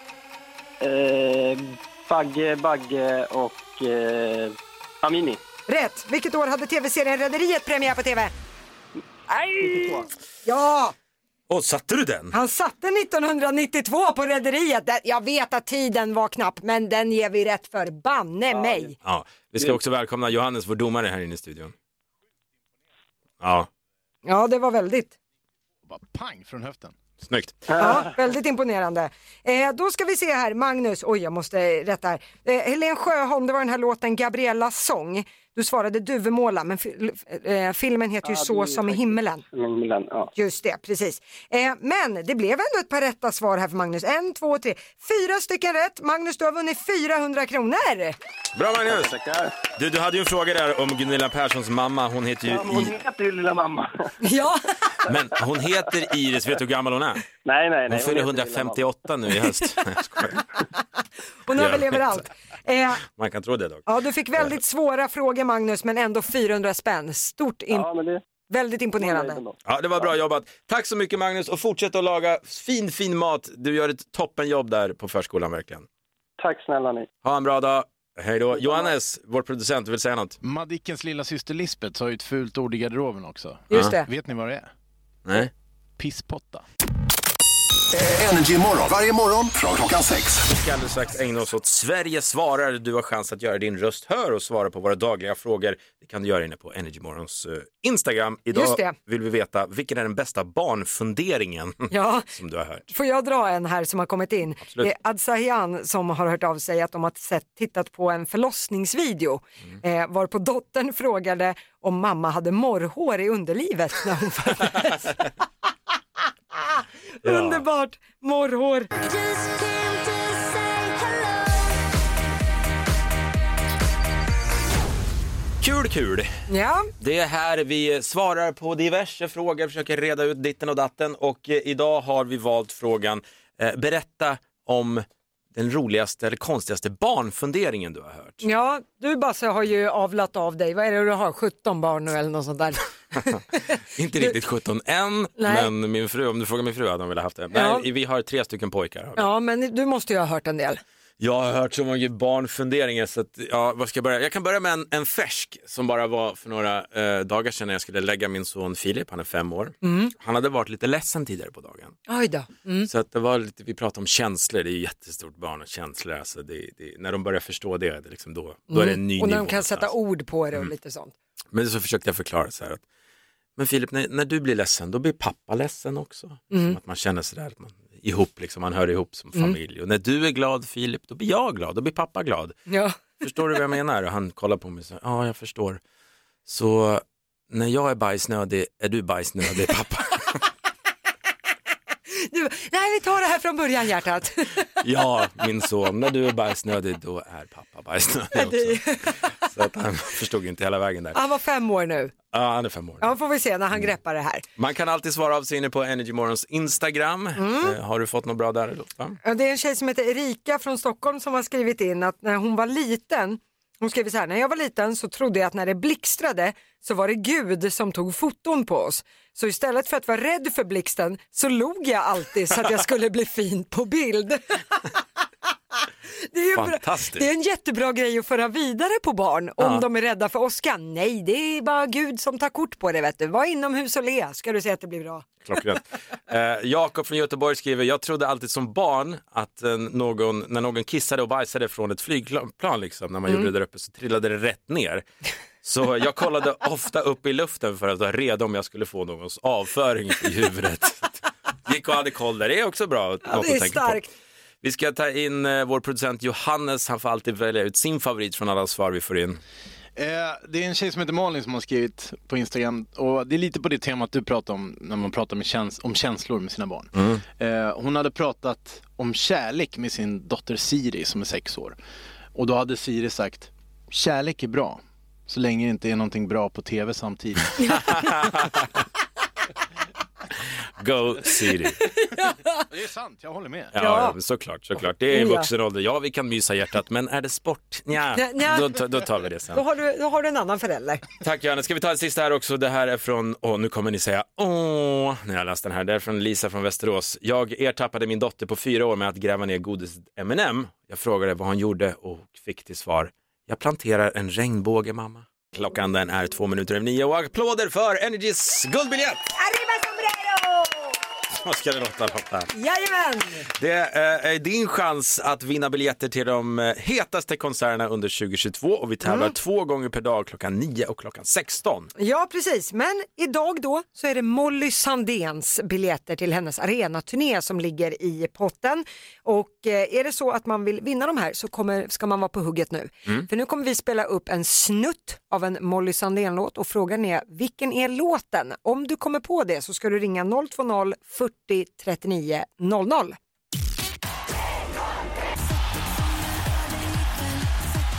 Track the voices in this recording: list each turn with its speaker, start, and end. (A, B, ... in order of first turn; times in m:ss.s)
0:00.8-0:05.4 A
0:05.7-0:08.3 B
0:09.3-0:10.1 A
0:10.4-0:10.9 B
0:11.5-0:12.3 C
0:12.3-0:19.0 B
0:18.5-0:18.9 A
0:19.0-0:21.7 C
0:23.4-0:23.7 C
0:24.2-0:25.1 B
0:25.9-0:27.0 D
0:27.2-0:27.7 C
0:27.7-0:28.0 A
0:27.8-0:39.4 B
0:38.2-0:40.3 A
0:40.4-0:48.2 B
0:48.6-0:49.1 C
0:48.9-0:49.5 A
0:49.8-0:53.0 C
0:52.4-0:54.1 A
0:54.2-0:54.6 B
0:55.0-0:57.2 C
0:57.4-0:58.9 A
0:57.9-1:00.4 C
1:01.4-1:03.0 B
1:01.5-1:02.2 C
1:03.0-1:03.8 C
1:03.9-1:07.9 B
1:07.7-1:08.2 A
1:08.5-1:09.4 B
1:09.0-1:10.1 A
1:09.7-1:15.9 C
1:16.4-1:17.1 A
1:17.2-1:20.4 C
1:18.5-1:18.9 A
1:20.4-1:24.7 D
1:23.7-1:24.1 B
1:23.7-1:24.0 C
1:25.3-1:25.5 C
1:26.0-1:26.6 D
1:27.9-1:30.4 E
1:30.4-1:42.9 C
1:38.5-1:39.0 B
1:41.9-1:42.3 B
1:42.9-1:55.3 B
1:44.6-1:44.9 C
1:56.5-1:58.9 B
1:57.2-1:57.6 C
2:05.6-2:06.3 C
2:06.5-2:06.9 B
2:07.0-2:18.4 C
2:18.4-2:23.6 B
2:24.0-2:29.3 C
2:25.4-2:25.7 B
2:27.5-2:27.8 B
2:29.2-2:30.8 B
2:31.2-2:42.0 C
2:39.8-2:40.1 B
2:42.1-2:42.9 B
2:42.9-2:49.9 C
2:48.7-2:51.1 B
2:51.5-2:52.8 C
2:53.6-3:02.6 C
2:56.5-2:56.8 B
3:02.7-3:03.0 B
3:03.2-3:05.8 C
3:06.4-3:10.4 C
3:12.2-3:14.7 B
3:14.8-3:21.2 C
3:18.4-3:19.3 B
3:21.1-3:22.1 B
3:22.3-3:23.1 C
3:23.0-3:24.4 B
3:24.6-3:29.2 C
3:27.4-3:27.8 B
3:29.2-3:44.8 B
3:46.3-3:55.3 B
3:46.6-3:47.3 C
3:49.6-3:49.8 C
3:55.4-4:05.0 C
4:05.6-4:11.1 C
4:11.7-4:14.0 C
4:13.3-4:14.0 B
4:14.6-4:19.4 C
4:20.0-4:31.8 D
4:27.0-4:27.2 C
4:32.3-4:37.5 D
4:37.6-4:38.7 C
4:40.8-4:41.8 C
4:42.7-4:43.7 D
4:43.7-4:49.6 C
4:43.8-4:44.2 B
4:45.1-4:45.5 B
4:48.1-4:48.8 B
4:49.5-4:51.0 B
4:51.2-5:09.3 C
5:09.4-5:11.0 B
5:11.3-5:12.5 C
5:12.5-5:13.4 B
5:13.6-5:21.9 C
5:19.0-5:19.3 B
5:22.0-5:43.2 B